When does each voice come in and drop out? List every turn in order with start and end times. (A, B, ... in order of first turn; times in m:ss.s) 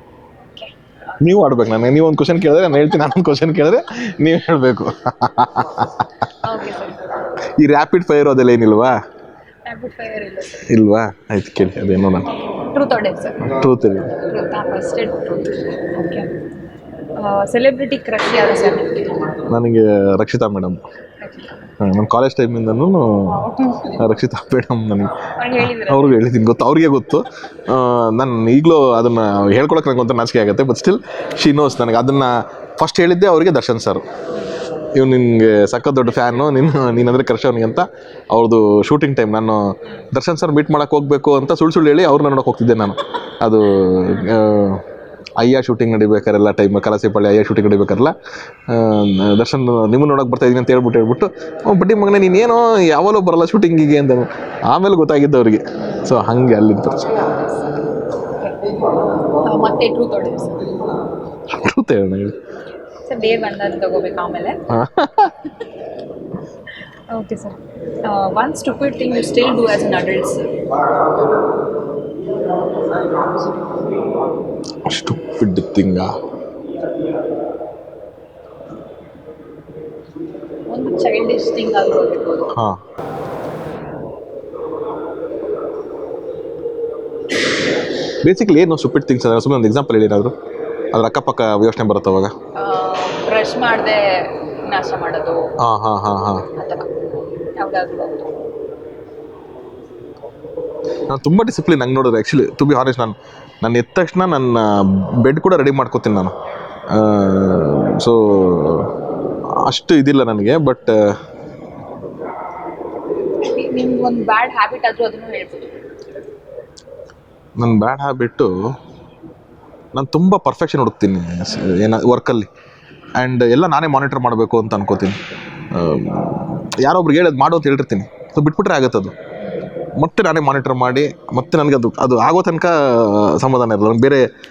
0:01.2-0:06.4 A
0:06.4-0:07.0 B
0:07.6-0:09.0 A
0:09.7-0:10.7 B
0:10.6-0:12.4 A
0:12.6-0:13.5 B
0:13.4-0:14.1 A
0:14.2-0:16.3 B
0:17.2-0:19.3 B
0:19.5-0:20.8 A
0:21.2-0:21.6 B
0:21.8-0:34.0 A
0:23.3-0:24.0 B
0:25.4-0:26.2 B
0:35.0-0:44.8 A
0:45.4-0:48.2 A
0:48.7-0:57.2 A
0:58.4-1:00.8 B
1:01.5-1:02.4 A
1:03.0-1:04.6 B
1:04.7-1:05.5 A
1:07.1-1:10.5 B
1:14.9-1:16.1 A
1:20.7-1:22.5 B
1:22.5-1:22.8 A
1:28.2-1:30.3 A
1:30.9-1:32.3 A
1:32.6-1:35.5 B
1:35.6-1:36.5 A
1:36.6-1:36.9 B
1:37.6-1:38.3 B
1:41.1-1:46.3 A
1:46.9-1:48.9 A
1:49.6-1:51.2 A
1:53.5-1:55.7 B
1:57.6-1:58.5 A
1:59.9-2:02.5 A
2:03.2-2:05.2 A
2:05.7-2:09.2 A
2:10.0-2:14.3 A